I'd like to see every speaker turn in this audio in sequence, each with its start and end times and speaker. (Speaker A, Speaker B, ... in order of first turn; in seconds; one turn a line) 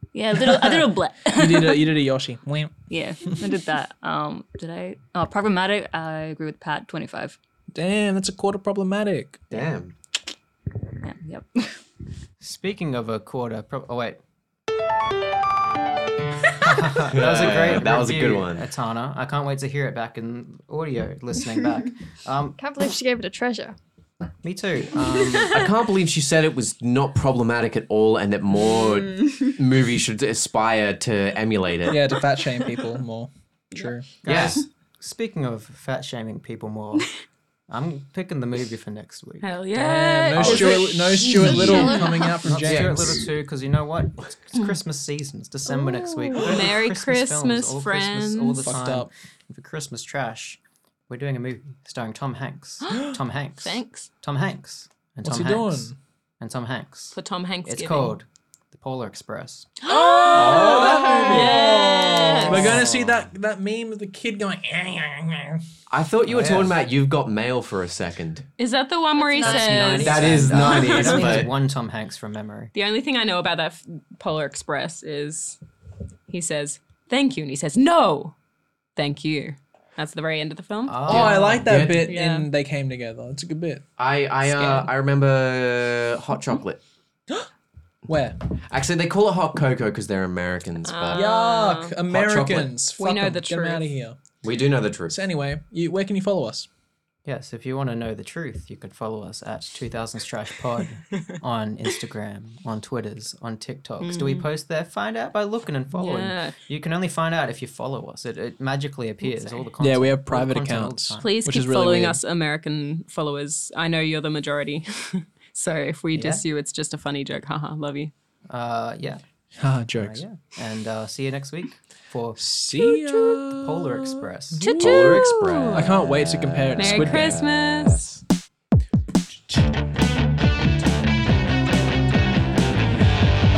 Speaker A: 0.1-2.0
Speaker B: 1.3-3.5
Speaker A: 2.9-7.3
Speaker B: 7.7-9.5
Speaker C: 9.5-9.9
Speaker A: 11.0-11.8
Speaker D: 12.4-14.2
Speaker D: 16.6-22.6
Speaker C: 16.9-18.7
Speaker E: 22.6-23.8
Speaker D: 24.4-25.5
Speaker C: 25.4-32.0
Speaker F: 28.6-29.5
Speaker B: 31.9-34.0
Speaker D: 34.2-37.1
Speaker C: 34.2-34.6
Speaker D: 37.7-39.5
Speaker F: 39.4-42.3
Speaker B: 39.7-43.2
Speaker C: 40.4-40.7
Speaker D: 40.4-40.8
Speaker E: 41.3-42.3
Speaker D: 42.4-59.8
Speaker C: 42.5-43.2
Speaker F: 45.7-48.7
Speaker B: 48.6-49.1
Speaker F: 53.6-54.1
Speaker B: 55.2-56.0
Speaker F: 57.1-58.1
Speaker F: 59.8-62.8
Speaker B: 59.9-65.6
Speaker C: 60.3-61.5
Speaker D: 60.4-60.9
Speaker D: 62.5-63.2
Speaker C: 65.9-68.5
Speaker D: 66.3-66.8
Speaker F: 68.6-71.2
Speaker E: 69.2-70.0
Speaker D: 69.4-72.7
Speaker C: 69.9-71.5
Speaker F: 72.7-75.6
Speaker F: 76.3-78.3
Speaker F: 79.0-81.2
Speaker D: 80.8-81.7
Speaker B: 81.1-83.8
Speaker C: 81.1-82.1
Speaker F: 82.0-82.5
Speaker C: 84.0-86.8
Speaker F: 84.4-84.9
Speaker B: 88.1-88.4
Speaker C: 88.6-91.2
Speaker F: 90.8-92.0
Speaker B: 91.1-94.2
Speaker C: 92.1-92.7
Speaker F: 93.0-93.8
Speaker C: 94.4-95.2
Speaker B: 95.1-96.7
Speaker D: 97.2-111.3
Speaker F: 104.0-104.5
Speaker F: 105.9-106.6
Speaker B: 109.8-112.2
Speaker F: 111.2-118.1
Speaker D: 116.1-116.4
Speaker D: 118.5-119.2
Speaker B: 119.6-120.2
Speaker D: 119.9-122.4
Speaker B: 122.4-125.0
Speaker D: 123.5-124.7
Speaker F: 124.6-126.0
Speaker C: 124.7-128.2
Speaker B: 125.7-127.4
Speaker F: 126.8-128.1